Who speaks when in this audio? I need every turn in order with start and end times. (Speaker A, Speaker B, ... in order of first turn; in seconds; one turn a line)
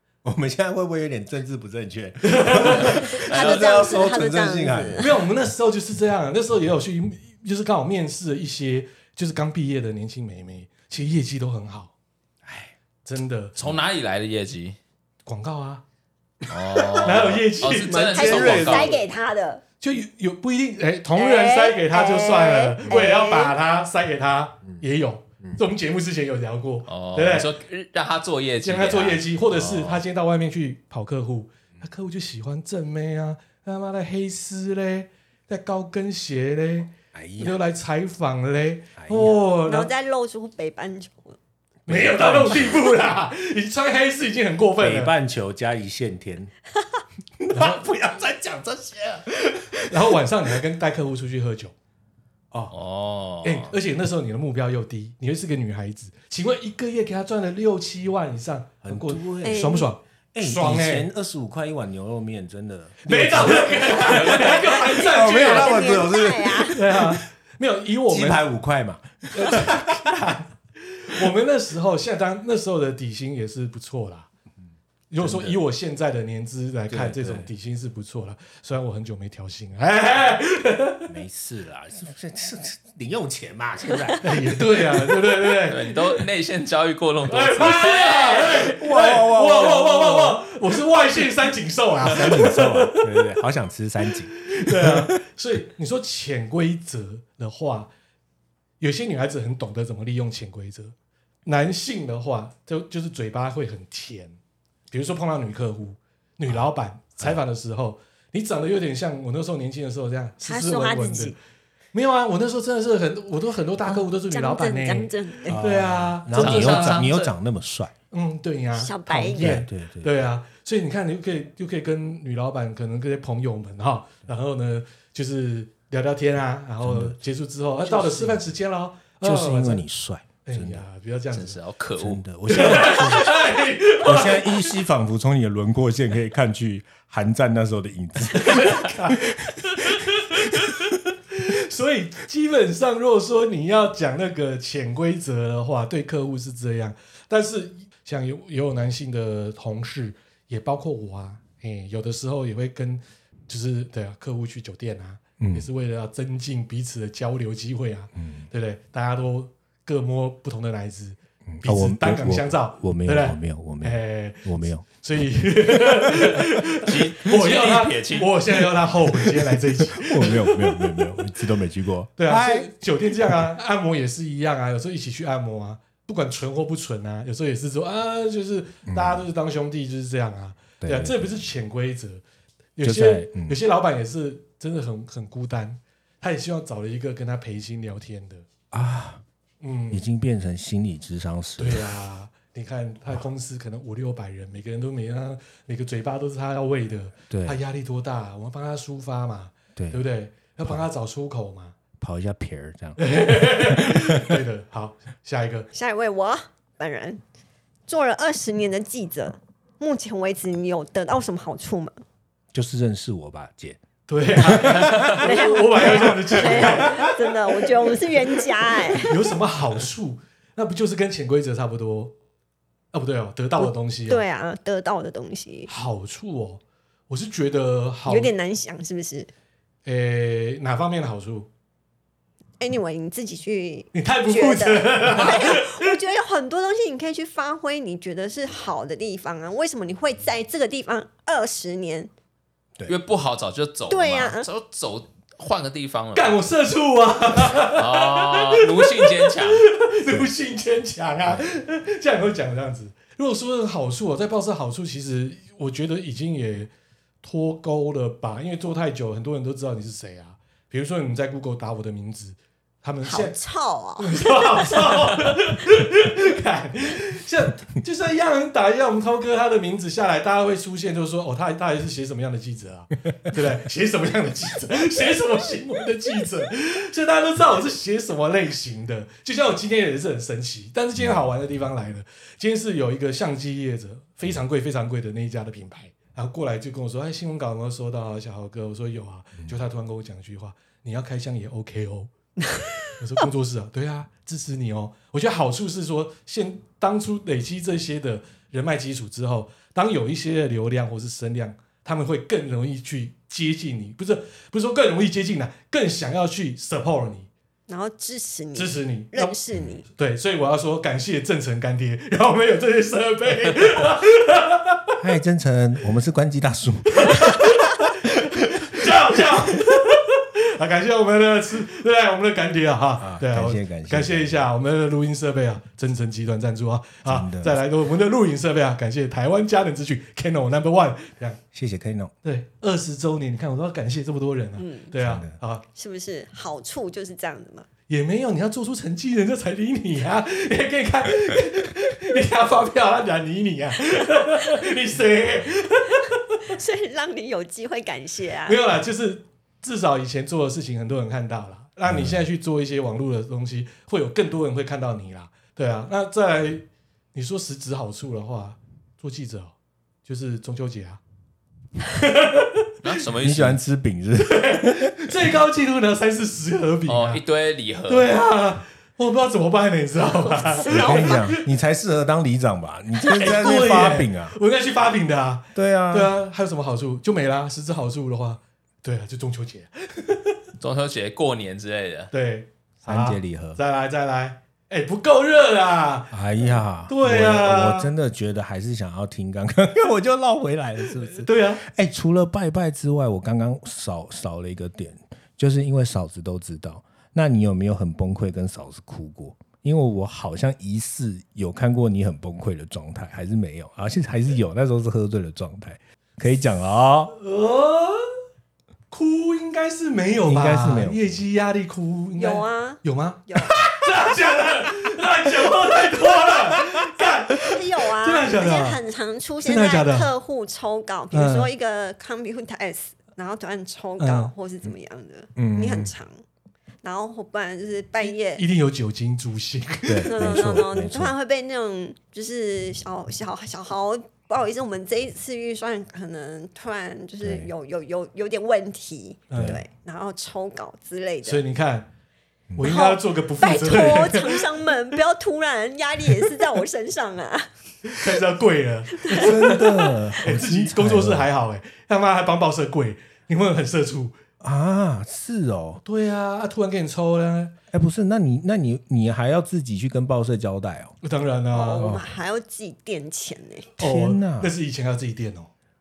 Speaker A: 0.2-5.1
Speaker B: 2.2-3.2
Speaker C: 3.0-5.2
Speaker D: 3.2-3.8
Speaker B: 5.0-11.9
Speaker A: 12.4-12.7
Speaker B: 13.0-13.6
Speaker D: 13.6-14.8
Speaker B: 15.2-15.8
Speaker D: 16.5-19.0
Speaker A: 16.7-17.4
Speaker B: 17.0-18.8
Speaker A: 17.9-19.0
Speaker C: 18.1-19.6
Speaker B: 19.8-27.5
Speaker C: 21.1-23.6
Speaker D: 26.9-30.0
Speaker B: 28.6-39.9
Speaker A: 37.1-37.6
Speaker A: 39.0-39.4
Speaker C: 39.6-41.4
Speaker A: 41.9-42.8
Speaker B: 41.9-45.1
Speaker A: 44.8-46.5
Speaker A: 47.4-50.0
Speaker B: 47.5-47.8
Speaker B: 49.9-51.7
Speaker D: 52.7-53.7
Speaker B: 53.4-61.1
Speaker A: 58.8-59.8
Speaker C: 59.4-59.9
Speaker A: 60.3-67.2
Speaker B: 63.0-66.1
Speaker C: 64.3-66.8
Speaker B: 66.7-68.5
Speaker A: 68.1-70.2
Speaker B: 69.3-74.3
Speaker B: 75.1-81.1
Speaker A: 75.2-75.6
Speaker A: 76.9-77.5
Speaker A: 81.1-85.2
Speaker B: 84.2-86.0
Speaker D: 85.7-88.6
Speaker B: 87.3-93.3
Speaker A: 87.8-90.4
Speaker A: 92.0-95.1
Speaker B: 94.5-97.9
Speaker B: 98.8-100.9
Speaker B: 101.5-104.3
Speaker B: 104.9-111.3
Speaker C: 110.4-111.3
Speaker B: 111.9-117.2
Speaker C: 113.9-115.6
Speaker A: 115.5-117.9
Speaker D: 116.3-117.3
Speaker B: 118.1-129.8
Speaker C: 118.7-119.6
Speaker A: 119.3-120.1
Speaker A: 126.8-127.2
Speaker A: 127.8-128.4
Speaker A: 129.2-130.8
Speaker B: 130.4-131.6
Speaker D: 131.3-132.2
Speaker A: 131.9-140.9
Speaker B: 132.5-134.7
Speaker B: 138.3-171.2
Speaker A: 155.4-155.7
Speaker A: 158.1-158.5
Speaker A: 161.5-164.8
Speaker A: 165.8-166.2
Speaker D: 166.8-168.3
Speaker A: 169.3-173.4
Speaker B: 172.2-182.2
Speaker A: 178.8-179.2
Speaker A: 180.8-181.4
Speaker B: 182.8-188.4
Speaker A: 182.8-183.6
Speaker A: 188.7-189.2
Speaker B: 189.6-190.1
Speaker A: 189.9-191.8
Speaker B: 191.6-201.7
Speaker A: 197.3-197.6
Speaker A: 199.8-200.0
Speaker A: 202.0-204.4
Speaker B: 203.0-205.7
Speaker C: 205.7-207.2
Speaker C: 207.9-212.0
Speaker A: 212.5-213.8
Speaker B: 214.1-217.8
Speaker A: 214.3-215.3
Speaker C: 215.1-219.2
Speaker A: 215.9-217.1
Speaker B: 218.7-222.1
Speaker B: 222.9-224.2
Speaker C: 223.6-225.7
Speaker B: 225.7-228.3
Speaker C: 228.1-229.3
Speaker B: 229.8-231.5
Speaker C: 232.6-242.1
Speaker B: 233.9-235.9
Speaker D: 242.9-246.4
Speaker C: 243.9-244.5
Speaker B: 246.1-256.7
Speaker D: 247.7-249.6
Speaker B: 257.2-263.4
Speaker C: 263.0-264.9
Speaker B: 264.0-292.1
Speaker B: 292.9-307.3
Speaker C: 307.7-309.9
Speaker B: 308.5-309.4
Speaker B: 309.9-315.0
Speaker A: 315.0-317.8
Speaker B: 316.9-331.4
Speaker A: 323.0-324.5
Speaker A: 327.0-327.6
Speaker A: 331.5-332.1
Speaker B: 332.2-335.6
Speaker C: 334.6-334.9
Speaker A: 335.0-335.4
Speaker C: 335.8-337.7
Speaker B: 337.9-346.5
Speaker C: 346.5-348.6
Speaker B: 348.4-361.0
Speaker A: 351.9-352.2
Speaker B: 361.8-362.7
Speaker D: 362.8-363.6
Speaker A: 363.1-365.3
Speaker B: 364.2-367.2
Speaker D: 366.9-368.1
Speaker B: 367.9-371.4
Speaker A: 370.6-374.4
Speaker C: 370.8-371.1
Speaker B: 373.0-380.4
Speaker A: 375.5-376.1
Speaker D: 380.6-382.1
Speaker B: 382.1-386.2
Speaker A: 382.8-383.6
Speaker A: 386.1-407.1
Speaker B: 386.9-387.9
Speaker B: 391.1-391.6
Speaker B: 407.1-408.0
Speaker B: 408.9-418.8
Speaker A: 410.2-411.1
Speaker C: 412.2-413.6
Speaker C: 417.3-426.2
Speaker B: 419.4-420.1
Speaker B: 421.1-421.5
Speaker B: 424.0-424.3
Speaker A: 425.4-425.9
Speaker C: 426.8-428.4
Speaker B: 428.0-430.7
Speaker A: 429.9-431.1
Speaker C: 430.1-441.4
Speaker A: 437.2-437.5
Speaker B: 439.3-439.6
Speaker B: 441.2-441.9
Speaker B: 442.6-444.5
Speaker C: 442.6-448.2
Speaker B: 447.9-454.2
Speaker C: 449.1-449.9
Speaker A: 449.1-451.3
Speaker A: 454.4-455.8
Speaker B: 455.8-457.5
Speaker A: 457.7-460.9
Speaker B: 461.0-462.0
Speaker C: 461.5-463.7
Speaker A: 461.8-462.1
Speaker B: 463.8-465.5
Speaker A: 463.8-464.5